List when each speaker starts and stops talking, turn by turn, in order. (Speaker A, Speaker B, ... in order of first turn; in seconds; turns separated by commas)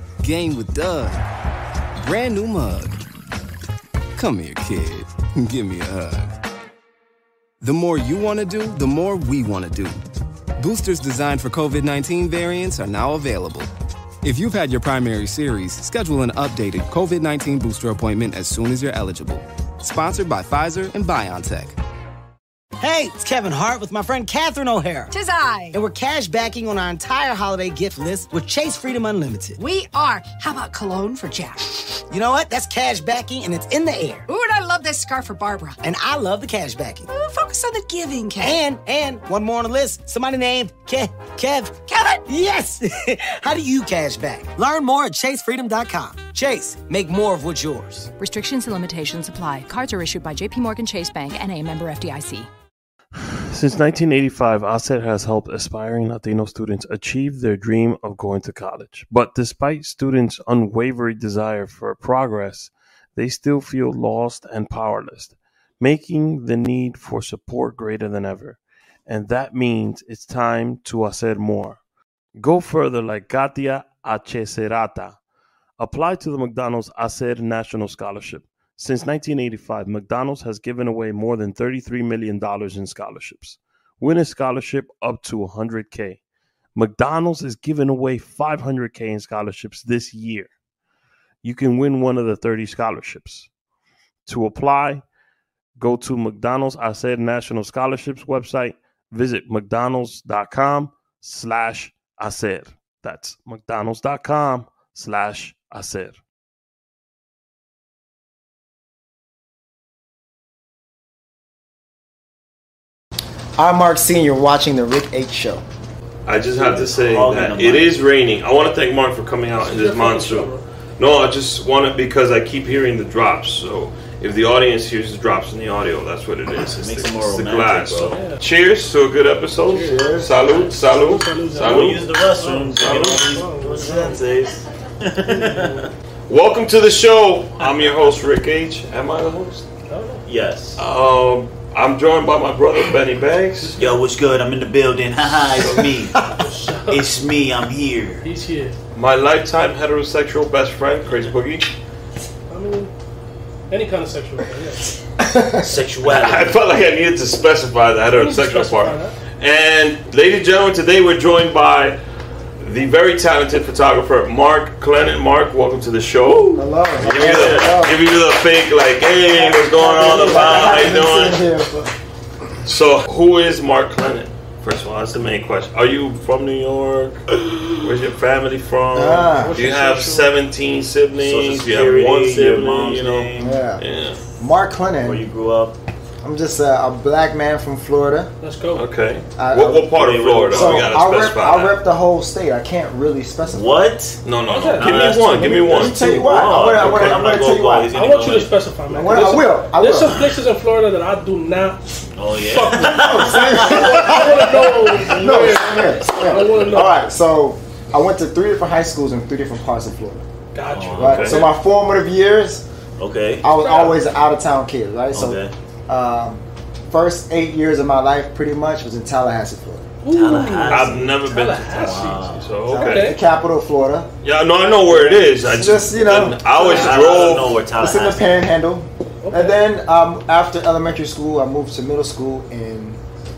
Speaker A: 0.2-1.2, Speaker A: 2.0-3.0, Speaker A: 4.2-6.3, Speaker A: 7.6-10.0, Speaker A: 10.6-13.7, Speaker A: 14.2-21.7, Speaker B: 22.8-25.1, Speaker C: 25.1-25.8, Speaker B: 25.7-29.6, Speaker C: 29.6-31.8, Speaker B: 32.1-34.3, Speaker C: 34.3-35.8, Speaker B: 35.8-37.1, Speaker C: 37.1-38.6, Speaker B: 38.4-48.1, Speaker C: 41.9-42.2, Speaker D: 48.2-52.5, Speaker E: 53.3-71.8, Speaker E: 72.4-75.2, Speaker E: 75.8-86.2, Speaker E: 86.8-90.5, Speaker E: 91.4-93.5, Speaker E: 94.3-95.0, Speaker E: 95.8-106.2, Speaker F: 113.6-115.6, Speaker E: 116.2-134.6, Speaker G: 116.5-118.0, Speaker H: 119.6-120.6, Speaker G: 126.6-128.2, Speaker H: 128.1-128.4, Speaker H: 129.7-134.2, Speaker F: 129.7-130.3, Speaker G: 131.5-135.9, Speaker H: 135.2-135.9, Speaker E: 136.3-139.7, Speaker H: 139.9-140.2, Speaker G: 140.2-140.8, Speaker E: 140.8-143.7, Speaker H: 143.6-144.0, Speaker G: 143.8-146.2, Speaker E: 145.6-145.9, Speaker H: 146.3-147.1, Speaker G: 146.9-148.2, Speaker H: 148.2-148.8, Speaker E: 148.9-151.7, Speaker H: 152.5-152.9, Speaker H: 153.7-154.9, Speaker F: 155.2-155.6, Speaker G: 155.6-156.6, Speaker E: 156.0-162.0, Speaker H: 158.1-159.2, Speaker E: 162.6-171.4, Speaker F: 166.5-168.0, Speaker G: 167.0-167.8, Speaker F: 169.3-171.9, Speaker E: 172.7-184.2, Speaker F: 178.9-179.6, Speaker H: 179.4-180.3, Speaker G: 181.2-183.6, Speaker F: 183.4-183.8, Speaker F: 184.4-185.2, Speaker G: 185.0-185.8, Speaker F: 186.2-188.3, Speaker H: 188.4-188.8, Speaker E: 188.7-191.8, Speaker F: 189.4-190.0, Speaker G: 189.9-190.9, Speaker F: 190.5-193.8, Speaker G: 193.5-194.2, Speaker E: 194.2-197.4, Speaker H: 194.4-196.3, Speaker G: 194.8-198.5, Speaker F: 195.7-197.9, Speaker H: 197.9-206.9, Speaker F: 198.9-200.2, Speaker G: 202.2-205.6, Speaker F: 202.9-210.2, Speaker H: 210.5-211.5, Speaker G: 210.7-211.3, Speaker E: 211.0-211.4, Speaker F: 211.0-212.6, Speaker G: 213.0-213.5, Speaker F: 213.4-219.9, Speaker H: 213.5-214.0, Speaker G: 215.1-215.5, Speaker H: 220.0-223.2, Speaker G: 220.1-222.5, Speaker E: 220.7-223.1, Speaker F: 222.7-224.1, Speaker E: 224.2-227.6, Speaker F: 224.9-233.0, Speaker G: 226.6-228.3, Speaker H: 229.2-229.6